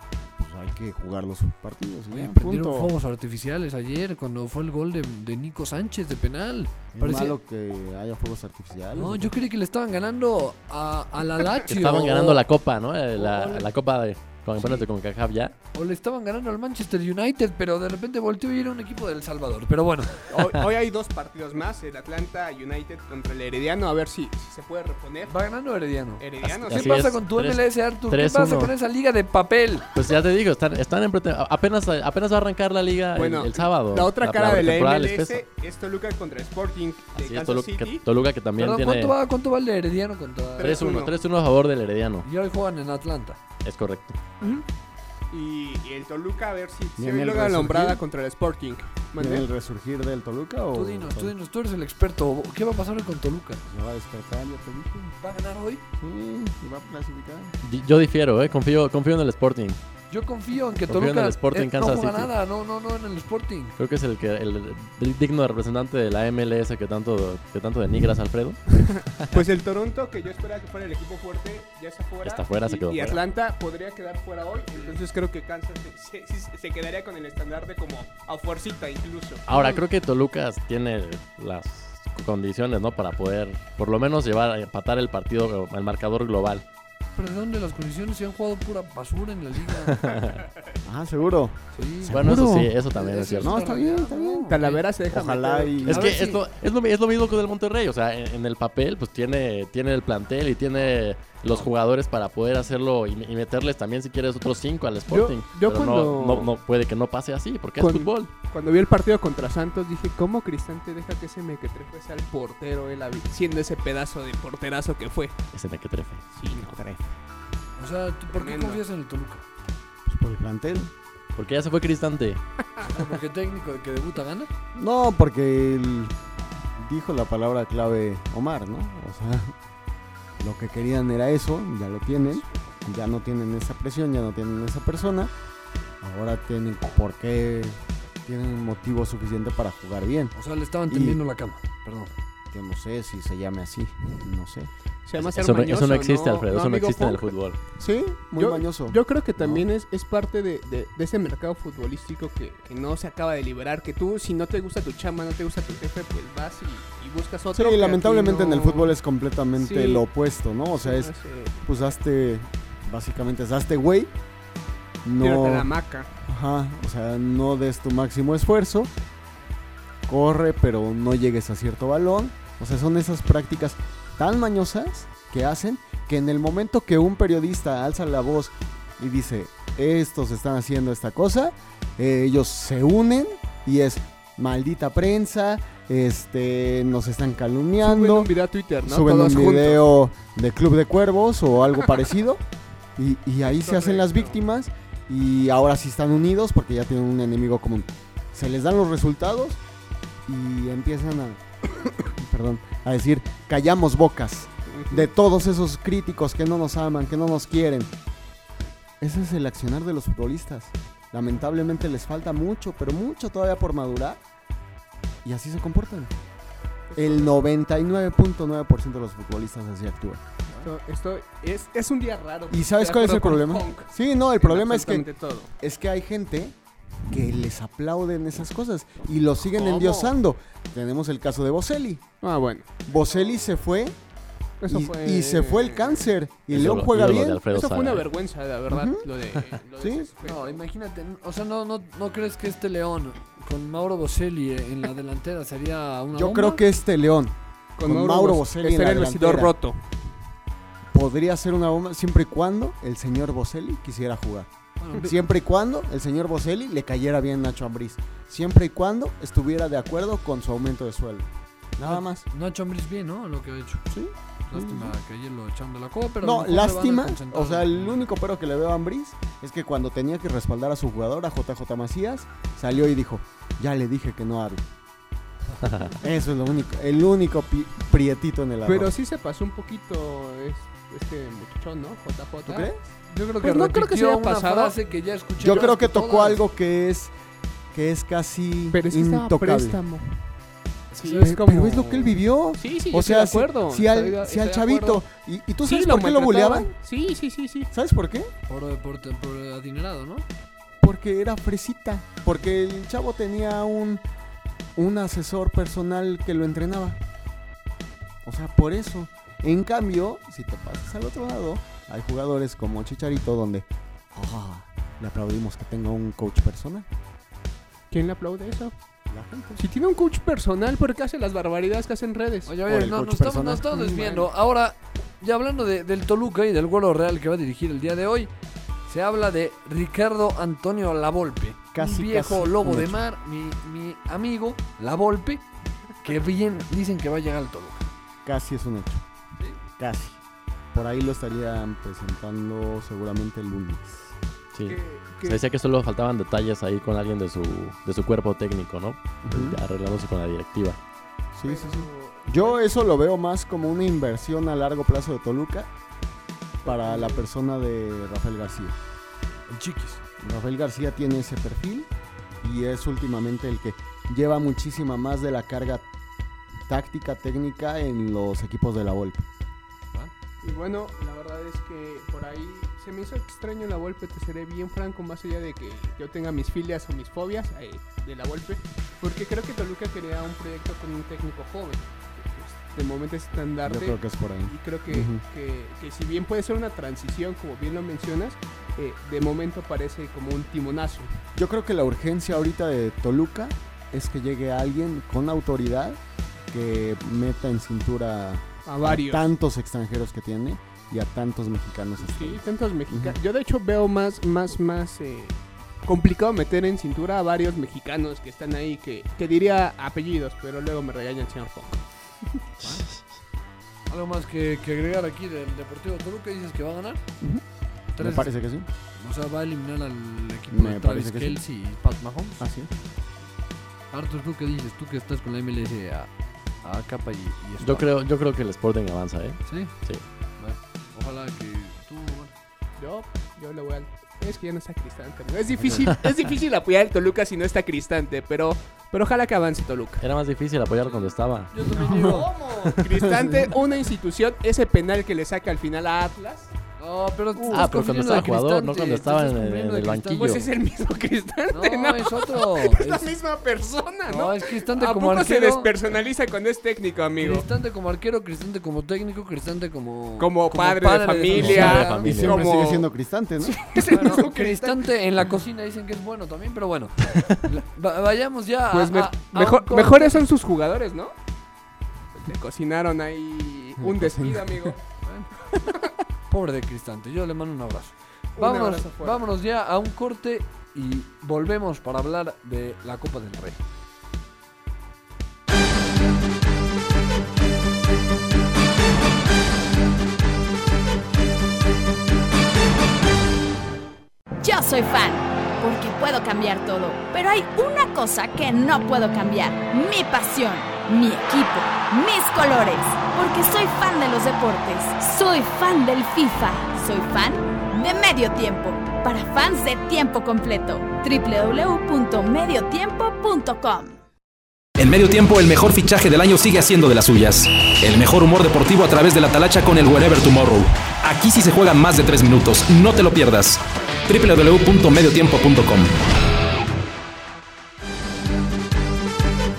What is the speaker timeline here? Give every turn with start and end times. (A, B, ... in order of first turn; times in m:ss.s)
0:00.4-0:02.9 A
0:02.1-0:07.4 B
0:06.9-0:09.3 A
0:08.9-0:12.4 B
0:11.7-0:15.6 C
0:13.2-0:13.7 B
0:15.7-0:20.3 B
0:20.3-0:25.3 D
0:25.3-0:29.9 B
0:26.2-0:27.0 D
0:26.4-0:28.7 C
0:29.9-0:35.4 C
0:33.2-0:38.0 D
0:37.2-0:39.2 C
0:38.6-0:40.8 B
0:40.6-0:41.1 D
0:40.6-0:42.3 C
0:42.2-0:43.4 B
0:43.6-0:44.2 C
0:45.3-0:49.5 D
0:47.0-0:48.0 A
0:49.2-0:51.3 A
0:50.7-0:53.6 B
0:53.6-0:55.2 A
0:55.2-0:55.8 B
0:56.0-0:57.6 A
0:57.6-0:59.8 C
1:00.1-1:03.8 B
1:00.9-1:02.3 C
1:03.8-1:09.4 C
1:08.8-1:19.8 D
1:12.2-1:13.2 C
1:19.5-1:26.6 C
1:27.2-1:30.1 B
1:29.9-1:30.4 C
1:30.8-1:34.6 A
1:31.7-1:32.3 B
1:32.1-1:33.6 C
1:32.9-1:34.8 B
1:34.5-1:36.0 D
1:35.1-1:36.0 A
1:35.9-1:48.3 C
1:35.9-1:36.4 B
1:45.1-1:46.5 D
1:47.8-1:55.4 D
1:55.5-1:56.2 C
1:56.4-1:56.8 D
1:56.6-1:57.1 A
1:57.8-1:59.4 B
1:58.3-1:58.8 D
2:00.1-2:00.9 A
2:01.4-2:02.4 C
2:02.8-2:04.5 B
2:04.7-2:06.1 A
2:06.8-2:09.5 A
2:10.4-2:15.3 A
2:16.0-2:20.4 A
2:20.4-2:22.1 B
2:20.9-2:21.2 A
2:22.5-2:24.7 A
2:25.1-2:27.3 D
2:25.2-2:27.6 C
2:27.8-2:29.7 A
2:28.4-2:38.9 D
2:37.5-2:44.1 A
2:39.6-2:40.0 D
2:40.8-2:41.6 D
2:45.0-2:45.7 A
2:45.2-2:46.1 D
2:46.2-2:48.9 A
2:50.1-3:08.3 A
3:07.8-3:09.8 D
3:08.8-3:12.4 A
3:13.0-3:19.6 A
3:13.4-3:14.4 D
3:20.3-3:27.9 A
3:24.7-3:25.1 D
3:29.0-3:34.2 A
3:35.2-3:36.1 A
3:36.9-3:37.3 D
3:37.0-3:40.2 A
3:40.6-3:43.9 D
3:42.5-3:45.1 A
3:44.4-3:45.5 D
3:45.6-3:46.6 A
3:47.1-3:52.0 A
3:49.6-3:50.1 D
3:52.2-3:52.8 D
3:52.9-3:54.0 A
3:54.6-3:56.1 D
3:54.7-3:57.4 A
3:56.5-3:58.1 C
3:57.5-4:00.6 D
3:58.7-3:59.1 A
3:59.8-4:00.1 A
4:00.2-4:06.6 B
4:06.1-4:09.6 A
4:07.8-4:09.8 D
4:10.9-4:22.3 A
4:14.8-4:15.1 B
4:21.8-4:23.9 B
4:23.9-4:25.0 A
4:24.5-4:28.0 B
4:26.2-4:34.7 A
4:35.8-4:38.9 A
4:38.7-4:42.7 D
4:42.4-4:42.8 A
4:43.1-4:46.4 B
4:43.4-4:44.8 D
4:45.4-4:47.1 A
4:47.7-4:49.8 A
4:48.7-4:50.2 D
4:50.9-4:51.4 B
4:51.0-4:55.0 D
4:51.2-4:56.7 A
4:55.6-4:57.7 D
4:57.7-4:58.3 A
4:58.5-5:00.3 B
5:00.8-5:04.0 A
5:04.8-5:07.0 A
5:08.2-5:16.9 A
5:17.9-5:18.7 D
5:19.1-5:19.6 A
5:19.6-5:22.5 D
5:22.5-5:28.3 B
5:22.6-5:24.3 A
5:28.9-5:35.5 B
5:31.7-5:33.0 A
5:36.0-5:37.9 B
5:38.2-5:39.0 A
5:39.8-5:40.2 A
5:40.7-5:44.2 A
5:44.5-5:50.8 C
5:44.7-5:45.4 D
5:49.2-5:49.6 A
5:51.3-5:55.7 A
5:51.4-5:52.7 D
5:56.6-5:57.2 D
5:56.6-5:58.8 A
5:59.5-6:00.0 B
6:00.2-6:01.9 A
6:02.4-6:05.9 A
6:06.7-6:09.3 A
6:10.4-6:31.2 D
6:23.6-6:25.2 A
6:31.4-6:43.2 A
6:38.7-6:39.2 D
6:42.0-6:51.8 D
6:53.9-6:57.0 B
6:58.0-6:58.3 B
6:58.0-6:58.7 A
6:59.0-7:02.5 B
7:00.5-7:01.4 A
7:02.4-7:02.7 A
7:03.9-7:06.1 B
7:06.6-7:07.9 B
7:07.6-7:10.0 C
7:09.4-7:09.7 B
7:10.4-7:12.3 B
7:12.8-7:20.0 D
7:20.0-7:21.5 C
7:20.8-7:22.3 B
7:21.8-7:26.6 D
7:21.9-7:22.2 A
7:22.9-7:23.5 A
7:26.8-7:30.4 B
7:27.5-7:30.5 C
7:30.2-7:37.5 D
7:31.5-7:33.2 B
7:34.1-7:35.7 B
7:37.2-7:42.0 B
7:40.2-7:42.9 D
7:41.3-7:42.5 C
7:41.4-7:43.8 A
7:43.4-7:44.9 D
7:43.9-7:50.3 B
7:48.7-7:51.2 D
7:52.1-7:54.8 D
7:53.8-7:54.7 A
7:55.0-7:55.3 B
7:55.5-7:55.9 D
7:56.3-8:03.6 B
7:58.4-7:59.2 D
8:14.4-8:34.0 E
8:34.8-8:46.0 F